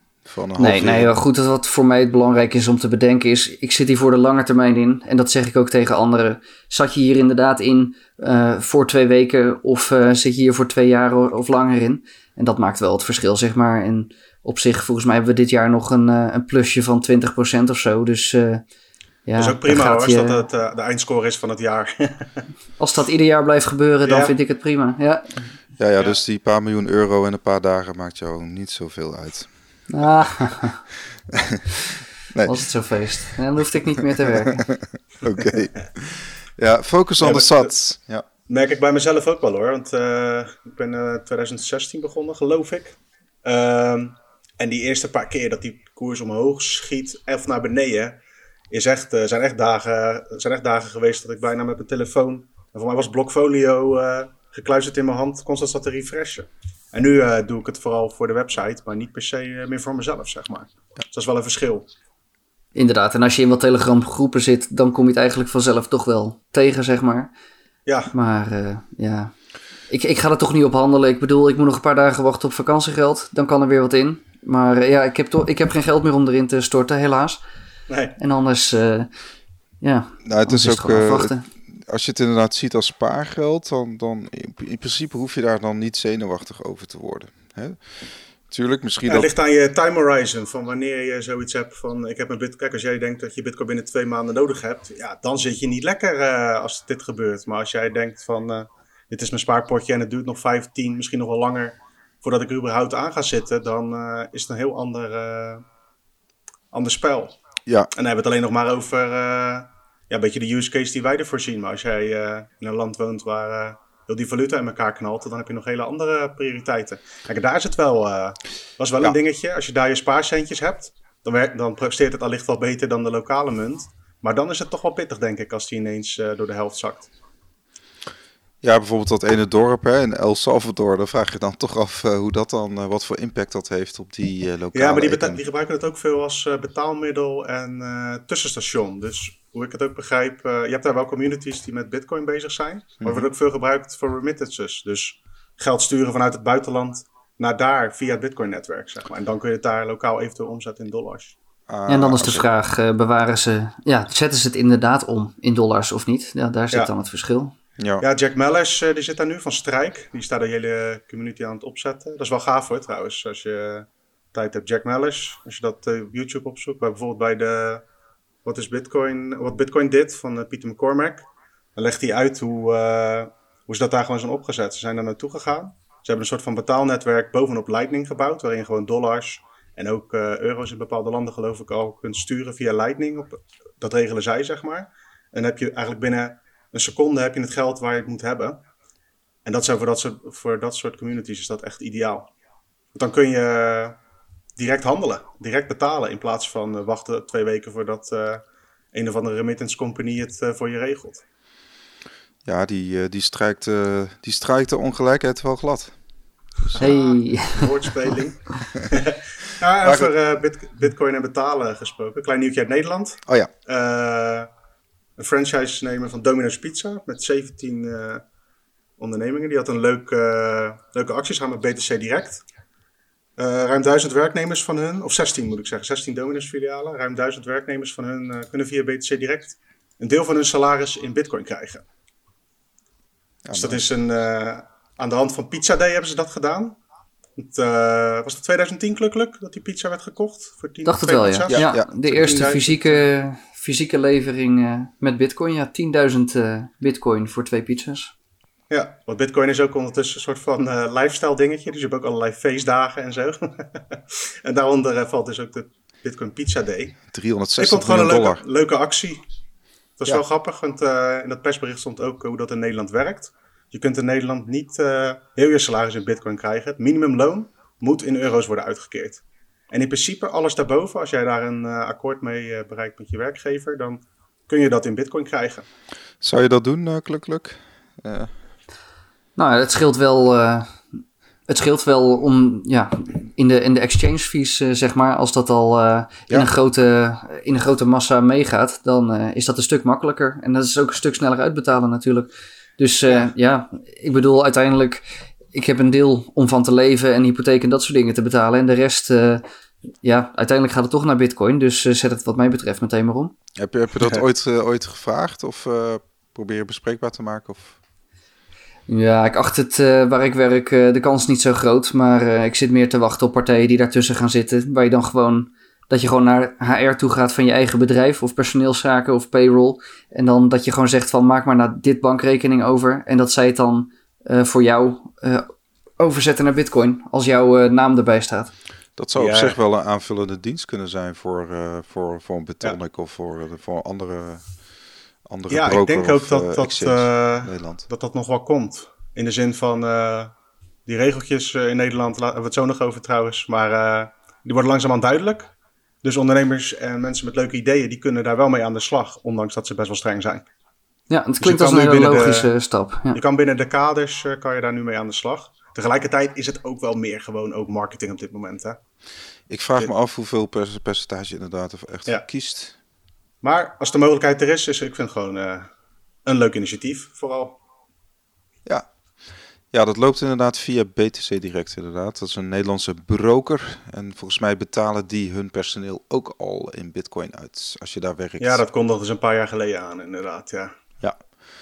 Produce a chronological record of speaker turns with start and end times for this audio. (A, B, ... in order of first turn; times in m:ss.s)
0:00.2-0:01.1 A
0:00.6-0:18.6 B
0:19.2-0:20.4 B
0:19.4-0:22.4 C
0:22.8-0:25.3 B
0:24.0-0:24.3 C
0:25.8-0:29.5 A
0:29.9-0:30.8 B
0:31.3-0:32.6 A
0:32.4-0:34.6 B
0:34.2-0:38.2 A
0:37.2-0:37.8 C
0:38.5-0:48.2 C
0:48.7-1:01.9 C
1:02.7-1:07.3 B
1:07.8-1:08.1 C
1:08.1-1:09.3 B
1:09.9-1:17.4 B
1:17.9-1:18.2 C
1:18.2-1:19.1 B
1:19.8-1:21.4 B
1:20.2-1:27.8 A
1:28.5-1:29.3 A
1:29.1-1:45.6 C
1:46.7-1:47.4 C
1:47.9-2:07.1 C
2:08.6-2:15.4 A
2:14.7-2:31.4 C
2:23.0-2:23.3 A
2:31.7-2:32.4 A
2:31.9-2:37.5 B
2:37.8-2:38.0 A
2:38.0-2:47.8 C
2:48.4-3:08.6 C
3:09.4-3:12.3 C
3:12.9-3:14.0 C
3:14.6-3:18.4 C
3:18.9-3:21.2 C
3:22.4-3:26.0 A
3:26.6-3:26.9 A
3:26.7-3:34.5 C
3:26.8-3:27.7 B
3:29.8-3:30.1 A
3:35.2-3:38.2 C
3:39.0-3:42.4 C
3:43.4-3:51.8 C
3:53.4-3:53.8 A
3:53.5-3:56.8 C
3:57.4-4:03.0 C
4:00.8-4:08.1 B
4:01.5-4:02.4 A
4:08.7-4:17.0 C
4:17.1-4:18.4 A
4:17.6-4:19.2 C
4:20.0-4:35.6 C
4:36.2-4:38.3 A
4:39.4-4:40.8 B
4:41.5-4:59.4 B
5:00.0-5:03.3 B
5:03.6-5:07.7 A
5:08.9-5:25.5 B
5:26.0-5:28.5 B
5:29.0-5:34.5 A
5:29.2-5:29.6 C
5:35.2-5:37.8 A
5:35.5-5:40.3 C
5:40.8-5:45.5 C
5:46.0-5:50.4 C
5:51.1-5:53.2 B
5:51.4-5:52.5 C
5:53.1-5:58.8 C
5:59.5-6:02.7 A
6:03.4-6:05.7 C
6:06.2-6:07.6 C
6:09.7-6:18.6 A
6:18.4-6:20.7 C